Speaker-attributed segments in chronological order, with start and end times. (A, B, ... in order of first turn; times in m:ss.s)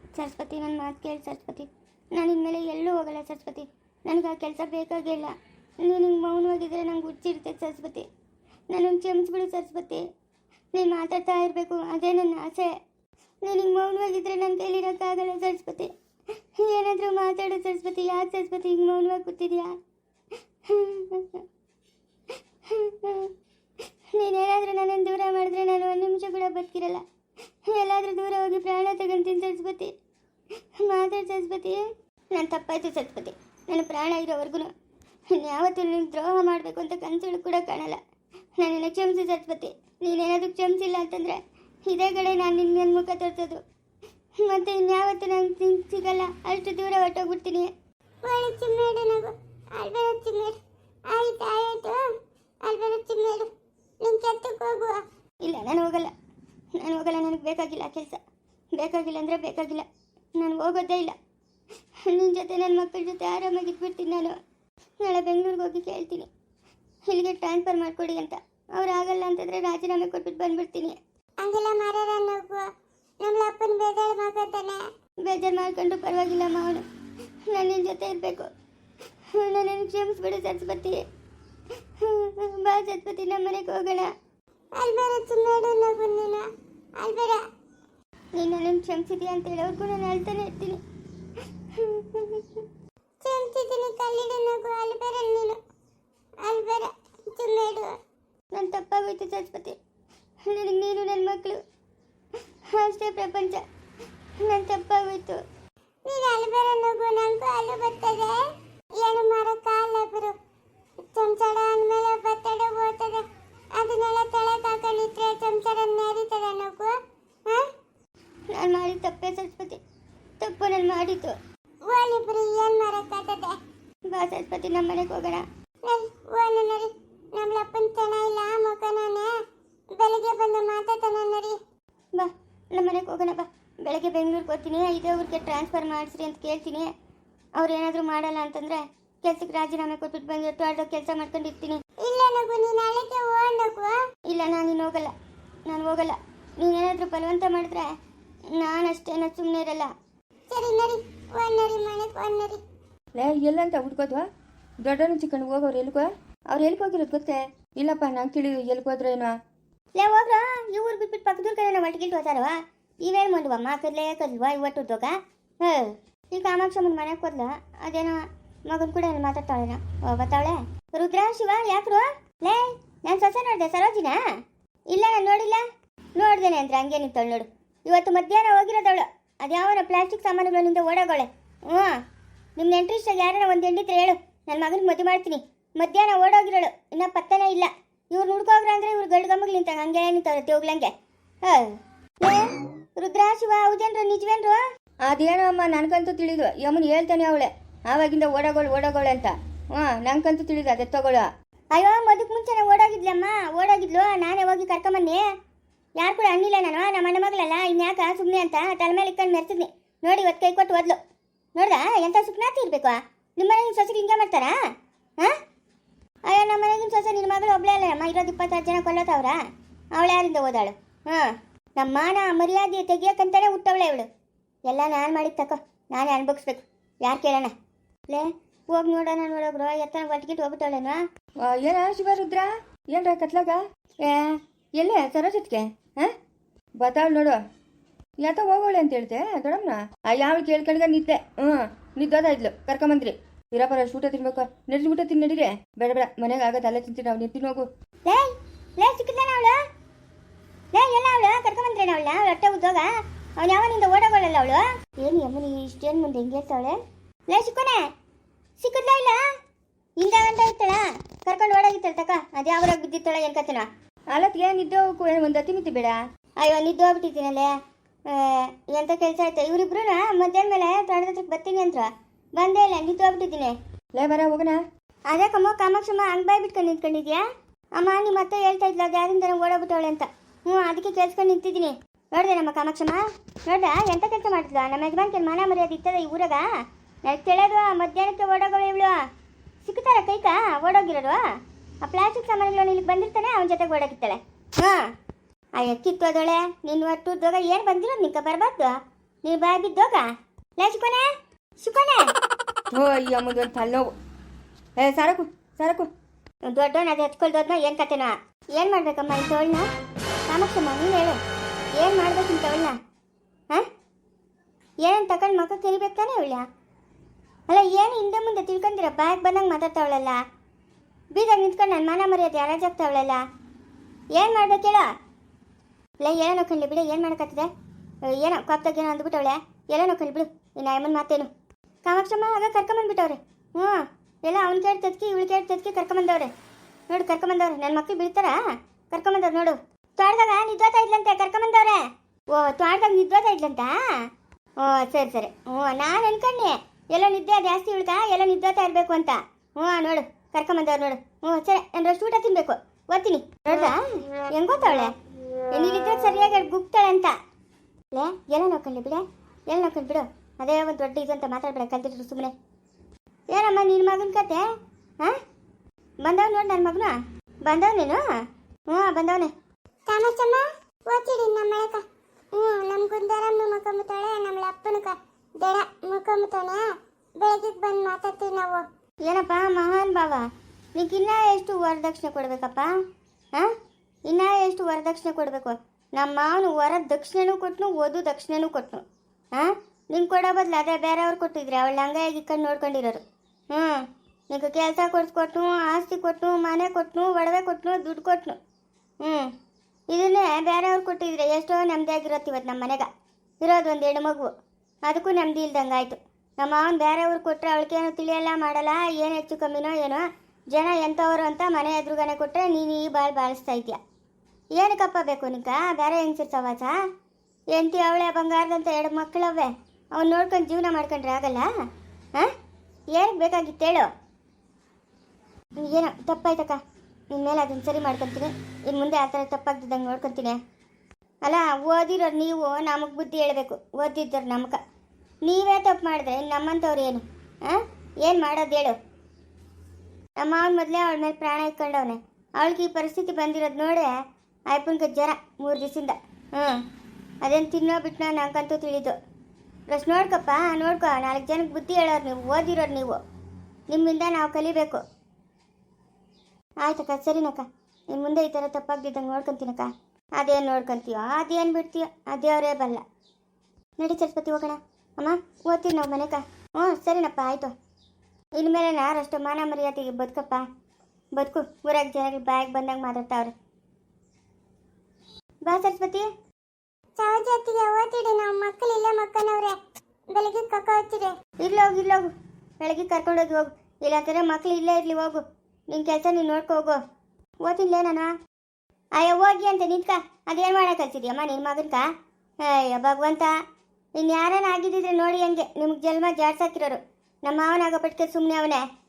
0:00.2-0:08.1 A
0:08.7-0:10.1 A
0:10.7-0:12.8 A
0:13.4-0:15.9 A
0:16.6-0:19.8 A
0:20.6-0:21.4 A
0:22.6-0:23.3 A
0:24.1-0:27.0 A
0:27.7-0:29.9 A
0:30.8-0:31.8 A
0:32.3-0:34.7 A
0:35.3-0:38.0 A
0:38.6-0:43.6 A
0:44.4-0:47.7 A
0:48.2-0:52.0 B
0:52.6-0:55.0 B
0:55.4-0:56.1 A
0:56.8-0:58.2 A
0:58.8-1:01.2 A
1:02.1-1:04.4 A
1:05.0-1:06.3 A
1:07.1-1:11.0 A
1:11.4-1:12.7 B
1:13.2-1:14.8 B
1:15.2-1:16.8 A
1:17.5-1:18.5 A
1:19.3-1:21.0 A
1:22.0-1:24.1 A
1:24.8-1:26.4 B
1:27.0-1:27.4 B
1:28.4-1:30.8 A
1:31.7-1:32.6 A
1:33.2-1:35.6 B
1:36.4-1:38.0 B
1:38.5-1:39.8 A
1:40.4-1:41.6 A
1:42.7-1:43.6 A
1:44.4-1:45.4 A
1:46.1-1:50.4 B
1:51.1-1:57.7 B
1:58.5-1:59.8 A
2:00.4-2:01.4 A
2:01.8-2:03.6 B
2:04.1-2:05.4 A
2:05.8-2:09.3 B
2:09.9-2:11.6 B
2:12.2-2:16.9 A
2:17.6-2:21.8 A
2:22.0-2:24.0 B
2:24.3-2:25.1 A
2:25.7-2:27.9 A
2:28.5-2:29.9 A
2:30.5-2:32.6 B
2:33.2-2:34.3 C
2:34.8-2:39.3 C
2:40.0-2:54.2 A
2:54.9-2:55.6 A
2:56.2-3:02.0 A
3:02.6-3:10.9 A
3:11.5-3:14.6 A
3:15.0-3:21.3 C
3:21.7-3:25.2 A
3:26.0-3:31.0 A
3:31.6-3:34.6 A
3:36.3-3:39.4 A
3:40.0-3:44.1 A
3:44.7-3:47.5 A
3:48.1-3:51.0 A
3:51.4-3:54.2 C
3:54.8-3:56.1 C
3:56.8-3:57.4 C
3:58.2-4:07.7 C
4:08.1-4:09.6 A
4:10.7-4:16.8 A
4:17.3-4:17.9 A
4:18.6-4:19.2 A
4:20.0-4:23.7 A
4:24.1-4:26.0 C
4:26.4-4:27.5 A
4:28.1-4:33.6 A
4:34.0-4:34.6 C
4:35.1-4:37.2 A
4:37.8-4:46.5 A
4:47.0-4:49.0 A
4:49.6-4:51.2 A
4:51.8-4:54.9 A
4:55.6-5:00.1 A
5:00.6-5:01.1 A
5:01.6-5:02.1 A
5:02.7-5:03.9 C
5:04.8-5:05.9 C
5:06.5-5:09.7 A
5:10.3-5:11.2 A
5:11.8-5:12.8 A
5:14.8-5:16.4 A
5:17.5-5:20.2 A
5:21.1-5:23.2 A
5:24.1-5:24.9 A
5:26.0-5:27.5 A
5:28.1-5:31.3 A
5:31.8-5:36.3 A
5:36.9-5:38.4 A
5:38.9-5:41.8 A
5:42.3-5:44.1 A
5:44.6-5:54.9 A
5:55.5-5:57.1 A
5:57.9-6:02.3 A
6:03.3-6:04.5 A
6:06.0-6:08.0 A
6:08.7-6:09.3 A
6:09.9-6:16.7 B
6:17.2-6:18.6 B
6:19.0-6:22.7 A
6:24.1-6:38.4 A
6:39.0-6:39.3 A
6:39.9-6:42.9 A
6:43.4-6:44.3 A
6:44.9-6:53.8 A
6:54.5-6:56.8 A
6:57.5-7:01.5 A
7:02.9-7:03.9 A
7:05.6-7:06.6 A
7:07.1-7:10.4 A
7:11.2-7:14.6 A
7:15.2-7:18.8 A
7:20.2-7:23.9 A
7:24.5-7:26.6 A
7:27.2-7:29.0 A
7:29.7-7:33.0 A
7:33.7-7:34.8 A
7:36.6-7:42.8 A
7:43.8-7:47.5 A
7:48.4-7:50.4 A
7:51.2-7:53.3 A
7:55.4-7:56.1 A
7:57.0-7:59.6 B
8:00.1-8:01.2 B
8:01.4-8:06.8 A
8:07.4-8:08.1 A
8:09.0-8:11.9 A
8:12.4-8:13.3 A
8:14.0-8:18.6 A